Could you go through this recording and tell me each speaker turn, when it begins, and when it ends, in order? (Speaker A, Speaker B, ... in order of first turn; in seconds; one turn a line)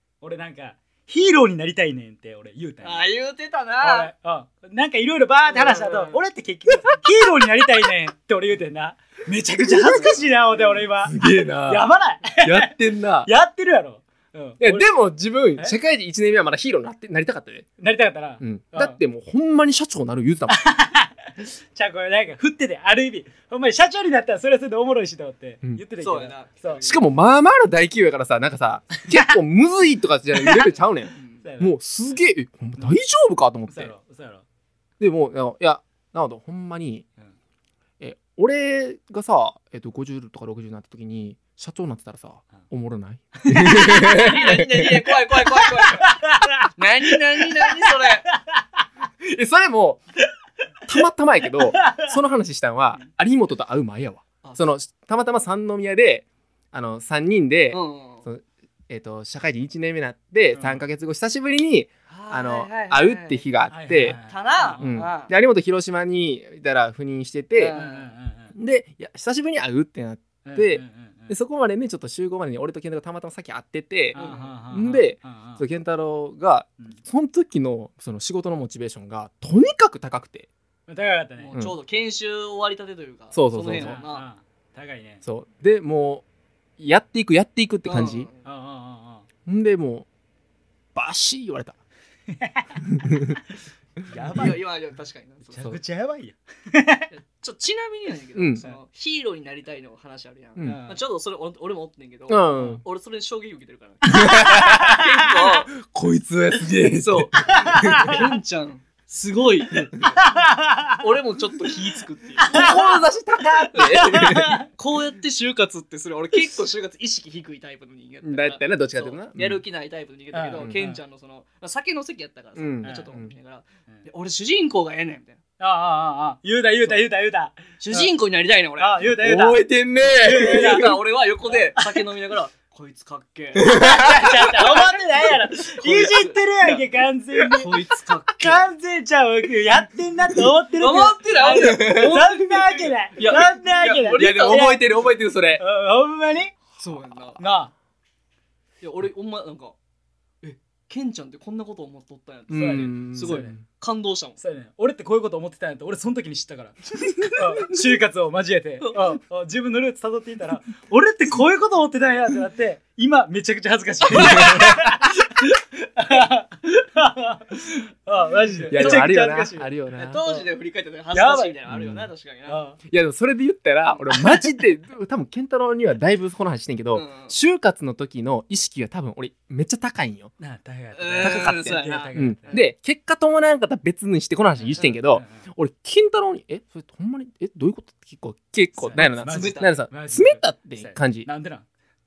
Speaker A: 0.2-3.1
Speaker B: 2.8-4.1
Speaker A: 3.8-14.9
Speaker B: 5.5-6.2
Speaker C: 9.6-10.2
Speaker C: 11.0-11.9
Speaker C: 12.4-13.3
Speaker C: 14.6-17.7
Speaker A: 17.8-19.0
Speaker C: 18.4-20.6
Speaker A: 20.5-26.8
Speaker B: 26.0-27.1
Speaker C: 26.8-33.9
Speaker B: 31.1-31.4
Speaker A: 31.4-31.8
Speaker A: 33.7-34.4
Speaker C: 35.0-37.0
Speaker C: 38.0-45.0
Speaker A: 43.4-44.4
Speaker B: 44.0-46.2
Speaker A: 45.4-48.8
Speaker B: 46.8-48.2
Speaker C: 49.2-50.0
Speaker C: 50.9-64.2
Speaker A: 51.6-52.1
Speaker B: 57.7-58.2
Speaker A: 60.5-60.8
Speaker B: 62.1-63.5
Speaker A: 63.7-65.0
Speaker B: 64.1-65.3
Speaker C: 64.8-67.8
Speaker B: 67.5-68.1
Speaker A: 67.7-68.5
Speaker C: 68.5-80.5
Speaker A: 70.4-71.4
Speaker A: 74.1-75.6
Speaker B: 74.1-74.5
Speaker A: 80.9-81.6
Speaker B: 81.4-84.3
Speaker C: 83.3-84.0
Speaker A: 83.7-85.2
Speaker C: 85.2-86.2
Speaker C: 86.8-88.3
Speaker B: 87.8-88.5
Speaker A: 88.4-89.3
Speaker C: 89.5-90.1
Speaker C: 90.9-91.8
Speaker A: 92.3-92.8
Speaker C: 93.0-93.4
Speaker A: 94.0-94.6
Speaker B: 94.2-95.6
Speaker A: 95.5-97.1
Speaker B: 97.1-105.7
Speaker C: 98.3-98.7
Speaker C: 100.6-100.8
Speaker A: 100.6-101.0
Speaker C: 102.3-102.8
Speaker A: 102.5-102.8
Speaker A: 104.0-105.2
Speaker C: 104.1-105.0
Speaker C: 105.7-108.3
Speaker B: 106.8-110.3
Speaker A: 107.4-108.3
Speaker A: 110.2-111.0
Speaker B: 111.0-112.8
Speaker A: 112.4-114.7
Speaker C: 112.5-114.6
Speaker B: 113.7-125.4
Speaker C: 118.2-119.6
Speaker A: 120.3-121.0
Speaker C: 122.5-123.3
Speaker A: 122.8-123.1
Speaker A: 125.6-128.1
Speaker B: 127.8-129.0
Speaker A: 128.8-132.0
Speaker C: 129.1-130.9
Speaker B: 130.0-136.8
Speaker C: 133.5-134.6
Speaker A: 133.6-144.8
Speaker C: 137.3-137.6
Speaker B: 137.6-138.7
Speaker B: 140.8-145.1
Speaker C: 141.4-142.4
Speaker C: 144.1-145.6
Speaker A: 145.6-146.5
Speaker C: 146.8-147.4
Speaker B: 146.8-147.4
Speaker A: 147.4-147.7
Speaker B: 148.8-149.7
Speaker B: 150.4-154.4
Speaker C: 152.5-153.6
Speaker A: 152.5-153.5
Speaker A: 154.4-170.5
Speaker B: 157.0-157.7
Speaker B: 158.8-159.1
Speaker C: 164.1-165.0
Speaker B: 168.7-169.1
Speaker C: 168.7-170.2
Speaker B: 169.9-172.6
Speaker A: 171.1-171.6
Speaker C: 171.7-172.1
Speaker A: 172.4-172.8
Speaker C: 172.9-180.3
Speaker B: 176.9-177.3
Speaker A: 180.4-182.6
Speaker B: 180.9-182.7
Speaker C: 181.2-191.3
Speaker A: 184.5-185.5
Speaker A: 188.8-191.7
Speaker B: 189.2-189.8